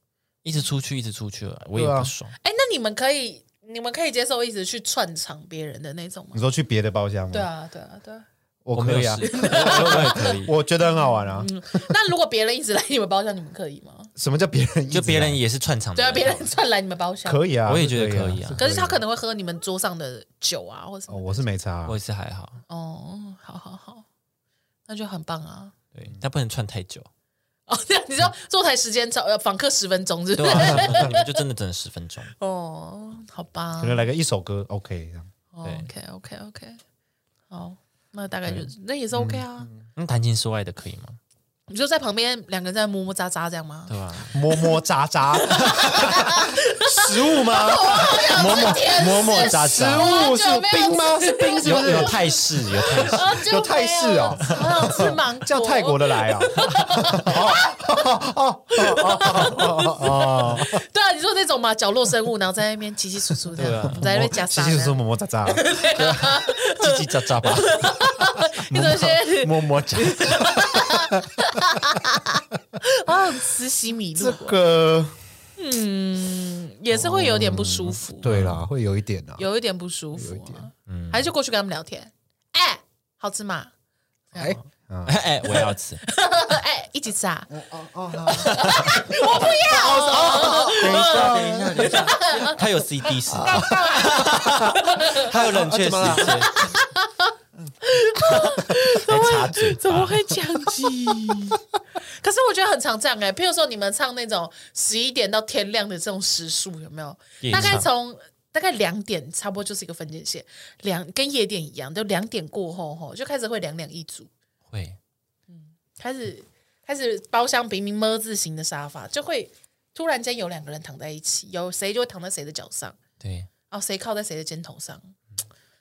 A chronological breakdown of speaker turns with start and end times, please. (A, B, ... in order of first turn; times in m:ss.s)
0:00.4-0:02.4 A
0:01.7-0:02.1 B
0:02.4-0:06.4 C
0:06.3-0:07.5 B
0:07.3-0:08.2 C
0:08.6-0:11.5 B
0:08.7-0:10.6 A
0:09.2-0:14.1 C
0:14.2-0:15.4 B
0:14.9-0:16.5 A
0:16.0-0:17.4 C
0:17.2-0:19.0 B
0:17.6-0:18.6 A
0:18.6-0:21.4 C
0:21.1-0:22.0 B
0:21.9-0:22.6 A
0:22.7-0:24.0 C
0:24.9-0:25.7 C
0:25.9-0:27.1 A
0:27.7-0:31.3 C
0:30.4-0:32.3 A
0:32.4-0:34.1 C
0:33.8-0:35.3 B
0:35.5-0:36.8 C
0:35.6-0:35.9 A
0:37.5-0:39.7 C
0:39.1-0:39.8 B
0:40.0-0:41.2 A
0:41.7-0:44.0 C
0:43.9-0:44.3 A
0:44.3-0:52.2 B
0:45.3-0:52.2 C
0:45.6-0:46.2 A
0:48.3-0:50.1 A
0:51.6-0:53.3 A
0:52.9-1:00.8 B
0:52.9-0:58.1 C
0:54.4-0:54.7 A
0:56.7-0:57.4 A
0:58.7-1:14.6 C
1:03.6-1:04.0 A
1:03.8-1:05.6 B
1:05.9-1:10.8 A
1:14.1-1:15.2 B
1:15.6-1:18.3 C
1:16.9-1:19.4 B
1:18.2-1:18.6 A
1:19.4-1:23.7 C
1:20.2-1:20.6 B
1:20.9-1:21.3 A
1:24.3-1:24.6 C
1:24.4-1:25.2 B
1:25.0-1:26.0 A
1:26.0-1:27.5 C
1:27.5-1:32.1 B
1:28.2-1:32.6 C
1:28.5-1:28.9 A
1:30.2-1:36.6 A
1:33.3-1:36.6 B
1:33.3-1:35.3 C
1:36.1-1:41.6 C
1:38.3-1:38.7 B
1:38.7-1:40.3 A
1:42.2-1:54.3 C
1:47.4-1:47.9 A
1:47.5-1:47.8 B
1:54.7-1:55.0 A
1:55.5-2:03.0 C
2:03.2-2:03.5 A
2:03.7-2:05.1 C